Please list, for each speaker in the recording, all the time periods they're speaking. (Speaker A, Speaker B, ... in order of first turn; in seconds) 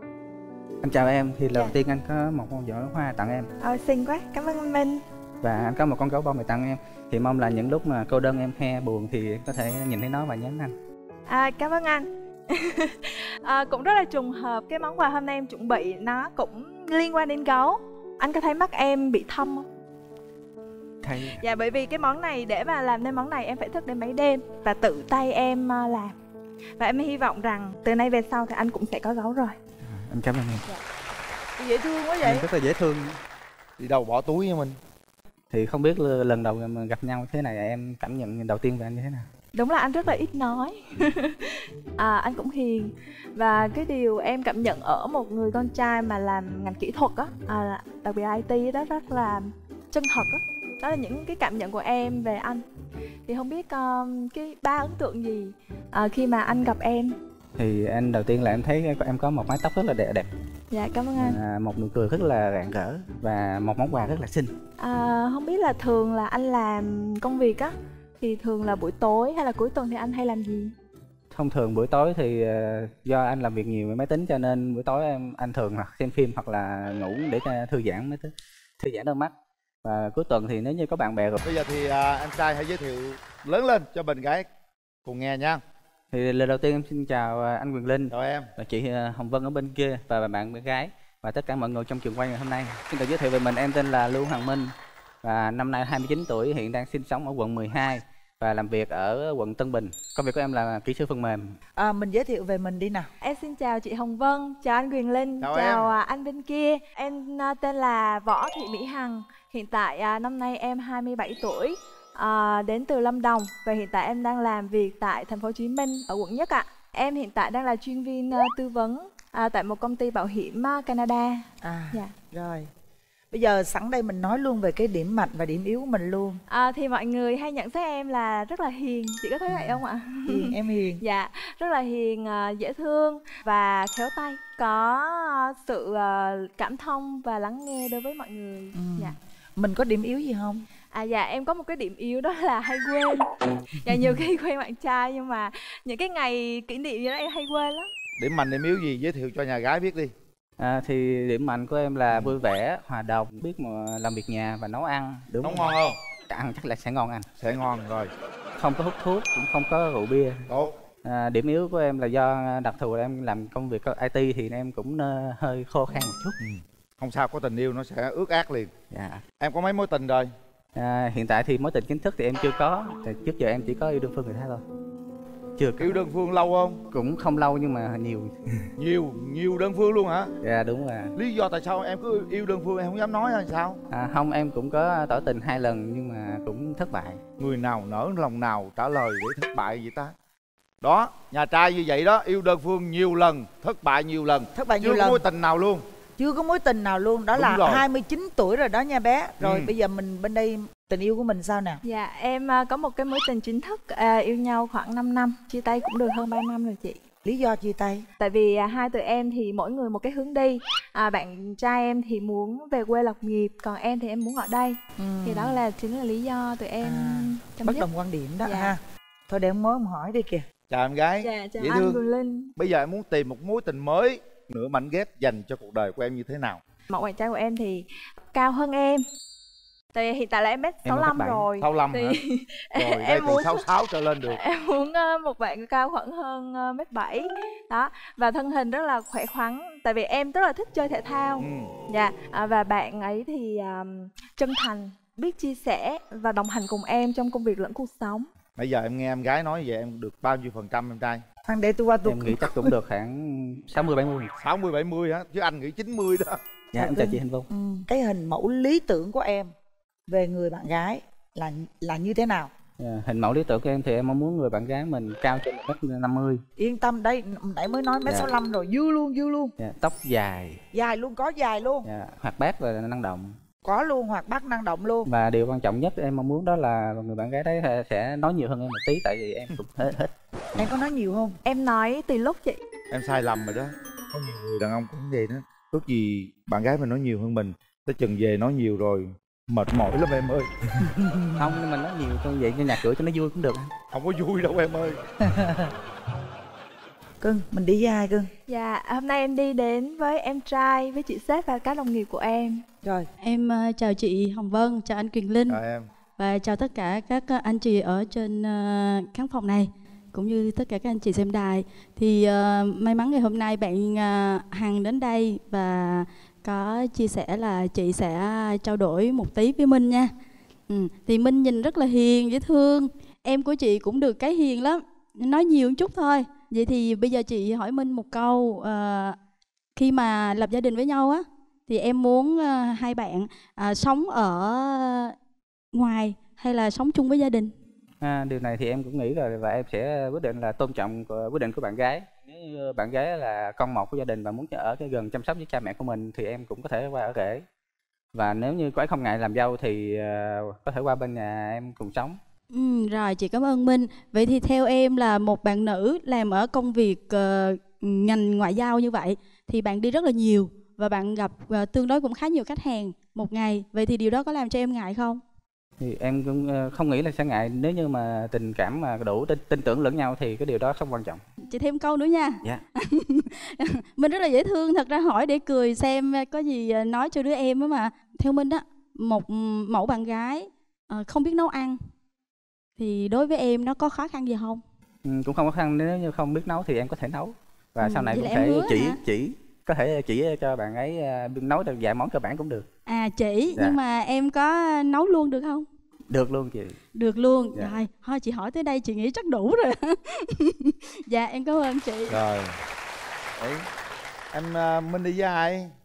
Speaker A: 0.8-3.5, 5.4-10.7, 21.0-21.4, 29.9-30.6, 32.2-33.2, 35.5-39.2, 57.6-60.3, 61.2-64.5, 71.3-79.3, 79.8-81.4, 86.1-101.6, 150.6-155.7, 156.3-157.3, 158.6-160.4, 161.0-166.4, 168.9-169.2, 170.8-174.6, 175.6-176.0, 176.9-178.3, 180.4-181.1, 183.9-187.2, 230.8-231.4, 252.0-254.3, 256.7-257.5, 262.8-266.4, 269.6-270.6, 271.8-273.3, 275.1-280.7, 291.4-293.7, 338.0-347.4, 348.1-352.2, 365.8-371.2, 385.0-392.7, 396.1-396.8
Speaker B: 3.6-5.0, 11.3-19.6, 21.3-26.2, 26.8-29.6, 39.5-52.6, 53.2-57.1, 60.7-61.4, 64.8-70.7, 103.2-122.2, 126.5-139.2, 140.9-147.9, 201.8-207.0, 208.2-217.8, 218.4-218.8, 221.2-222.5, 226.9-229.0, 229.9-233.7, 234.2-248.3, 281.4-282.6, 298.5-302.6
Speaker C: 31.6-32.5, 101.8-103.1, 121.6-122.7, 123.3-126.4, 129.5-131.0, 138.7-140.6, 194.5-195.2, 196.2-201.8, 207.2-208.0, 215.0-215.6, 216.8-220.4, 251.4-252.7, 256.8-259.5, 260.1-262.5, 266.6-269.5, 270.7-271.9, 273.6-275.1, 280.6-281.4, 290.9-291.2, 295.2-295.7, 297.2-298.3
Speaker D: 33.8-34.8, 81.4-84.5, 85.0-85.6, 88.1-88.5, 105.4-105.9, 148.2-150.1, 155.4-155.9, 157.4-158.1, 166.4-168.7, 169.4-170.3, 175.8-176.8, 178.8-180.3, 181.2-183.8, 187.4-190.1, 190.8-195.8, 197.3-197.8, 199.4-199.7, 220.7-222.0, 222.6-226.6, 231.6-232.2, 232.8-234.4, 241.4-241.7, 248.6-251.2, 254.4-256.4, 282.9-290.5, 293.9-294.9, 305.5-305.9, 402.1-402.5, 403.4-403.6, 404.3-405.7
Speaker E: 303.2-305.6, 306.2-320.1, 320.7-329.1, 329.8-335.1, 335.7-337.5, 352.5-365.2, 371.5-381.8, 382.8-384.6, 387.8-389.0, 392.9-395.6, 396.9-402.2